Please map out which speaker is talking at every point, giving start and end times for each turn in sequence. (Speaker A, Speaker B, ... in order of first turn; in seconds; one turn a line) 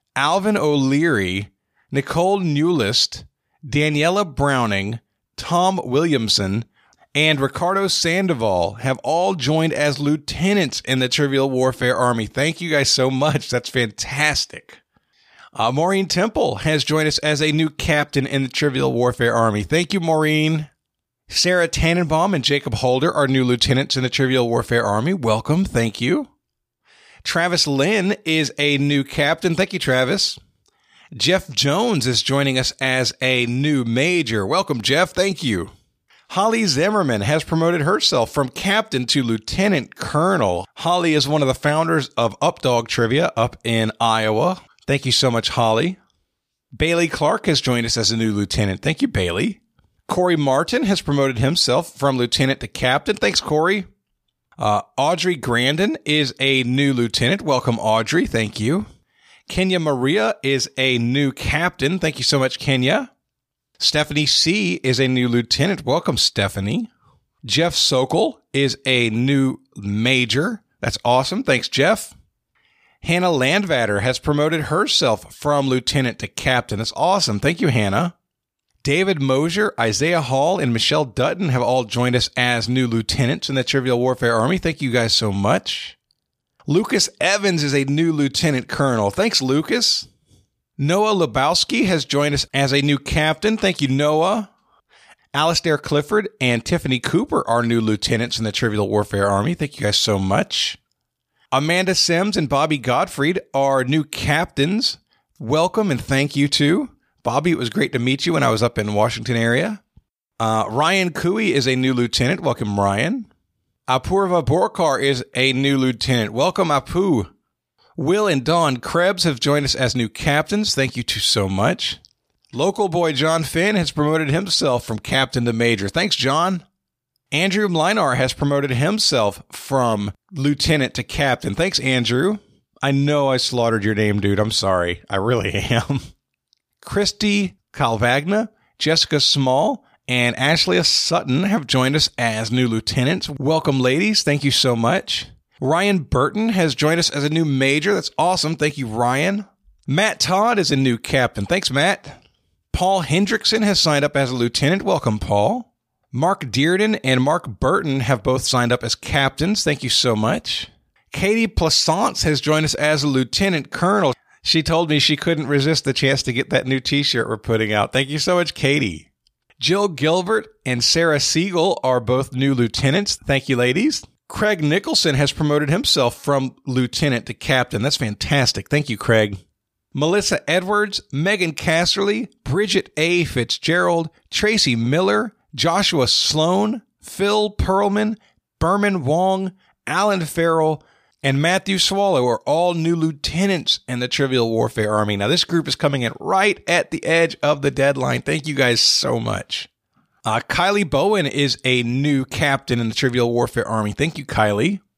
Speaker A: 0.1-14.8
Speaker A: 15.6-20.7
Speaker A: 21.3-26.3
Speaker A: 27.2-30.4
Speaker A: 31.1-35.7
Speaker A: 36.3-46.0
Speaker A: 46.7-53.9
Speaker A: 54.6-58.9
Speaker A: 59.5-63.1
Speaker A: 63.8-66.9
Speaker A: 67.4-72.1
Speaker A: 73.0-78.1
Speaker A: 78.8-86.0
Speaker A: 86.7-90.1
Speaker A: 90.8-94.5
Speaker A: 95.3-100.8
Speaker A: 101.5-109.8
Speaker A: 110.4-113.3
Speaker A: 113.9-117.3
Speaker A: 118.0-122.0
Speaker A: 122.5-126.6
Speaker A: 127.3-136.1
Speaker A: 136.8-152.2
Speaker A: 152.7-169.1
Speaker A: 169.6-179.4
Speaker A: 179.9-199.7
Speaker A: 200.2-204.8